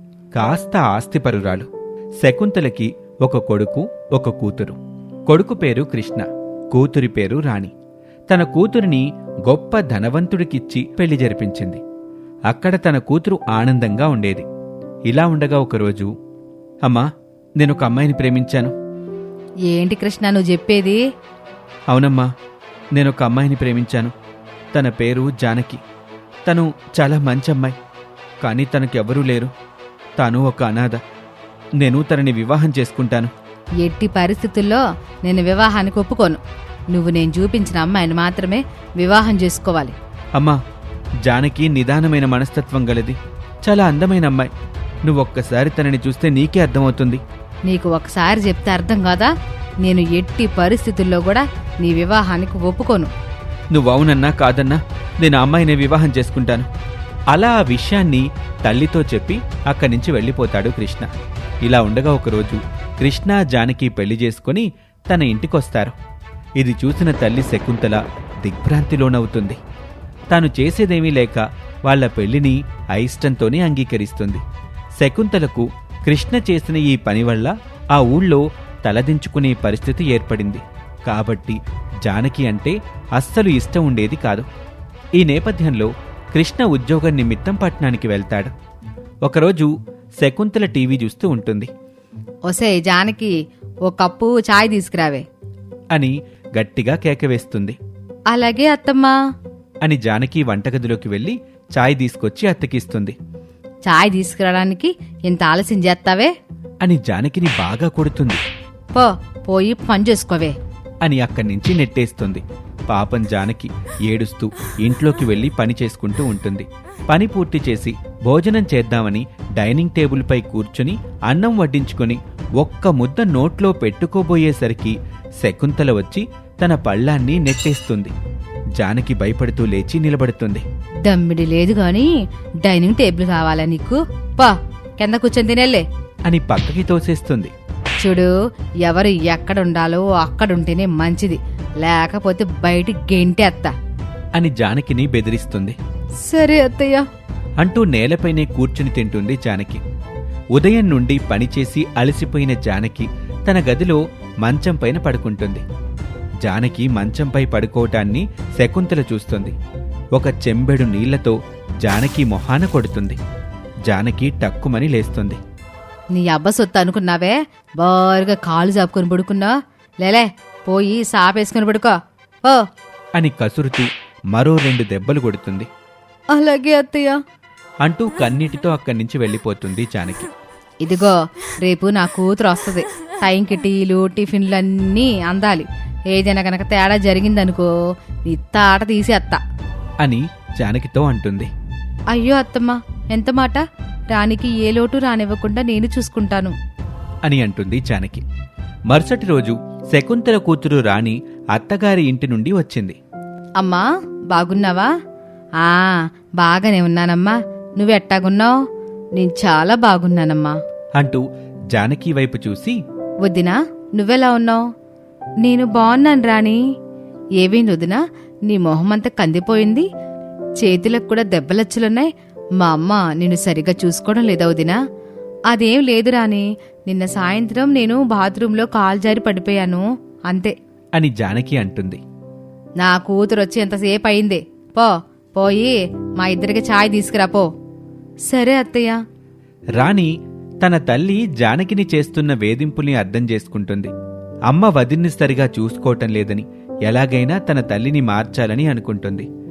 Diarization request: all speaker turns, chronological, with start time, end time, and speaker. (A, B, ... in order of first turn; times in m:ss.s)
0:00.4-0:01.7 A
0:02.2-0:07.7 A
0:08.3-0:11.8 A
0:12.5-0:14.5 A
0:15.1-0:16.1 A
0:17.6-0:18.7 A
0:19.7-0:21.0 B
0:21.9-0:22.3 A
0:23.0-0:24.1 A
0:24.7-0:25.8 A
0:26.4-0:27.7 A
0:28.4-0:29.5 A
0:30.2-0:31.0 A
0:31.8-0:33.3 A
0:33.8-0:36.4 B
0:36.9-0:40.0 B
0:41.3-0:44.5 A
0:45.0-0:47.2 A
0:47.7-0:49.3 B
0:49.8-0:53.1 B
0:53.7-0:56.7 A
0:57.3-1:01.1 A
1:01.6-1:05.9 A
1:06.6-1:09.6 A
1:10.3-1:14.4 A
1:15.0-1:24.5 A
1:25.2-1:28.5 A
1:29.2-1:31.7 A
1:32.5-1:33.3 B
1:33.8-1:35.2 B
1:35.9-1:37.8 A
1:38.3-1:39.1 B
1:39.8-1:43.2 A
1:43.9-1:46.3 B
1:46.8-1:48.4 A
1:48.9-1:50.6 B
1:51.0-2:08.1 A
2:08.8-2:10.6 A
2:11.0-2:12.1 B
2:12.6-2:15.8 B
2:16.3-2:17.5 A
2:18.0-2:18.3 B
2:18.9-2:23.7 B
2:24.4-2:25.8 A
2:26.3-2:27.0 B
2:27.6-2:29.8 A
2:30.6-2:35.6 A
2:36.4-2:39.6 A
2:40.2-2:43.2 A
2:43.9-2:45.4 A
2:46.2-2:49.5 B
2:50.0-2:52.6 B
2:53.2-2:55.7 A
2:56.3-2:57.2 B
2:57.8-3:00.3 A
3:00.8-3:07.7 B
3:08.3-3:09.4 B
3:10.0-3:11.5 A
3:12.1-3:16.6 B
3:17.2-3:18.2 A
3:18.9-3:23.0 A
3:23.6-3:24.9 B
3:25.6-3:28.5 B
3:29.2-3:30.6 B
3:31.0-3:32.8 A
3:33.2-3:34.6 B
3:35.4-3:36.6 B
3:37.4-3:39.9 B
3:40.6-3:42.1 B
3:42.6-3:44.8 B
3:45.5-3:50.5 B
3:51.0-3:52.0 A
3:52.8-3:57.5 B
3:58.3-3:59.0 B
3:59.8-4:03.9 A
4:04.5-4:09.3 A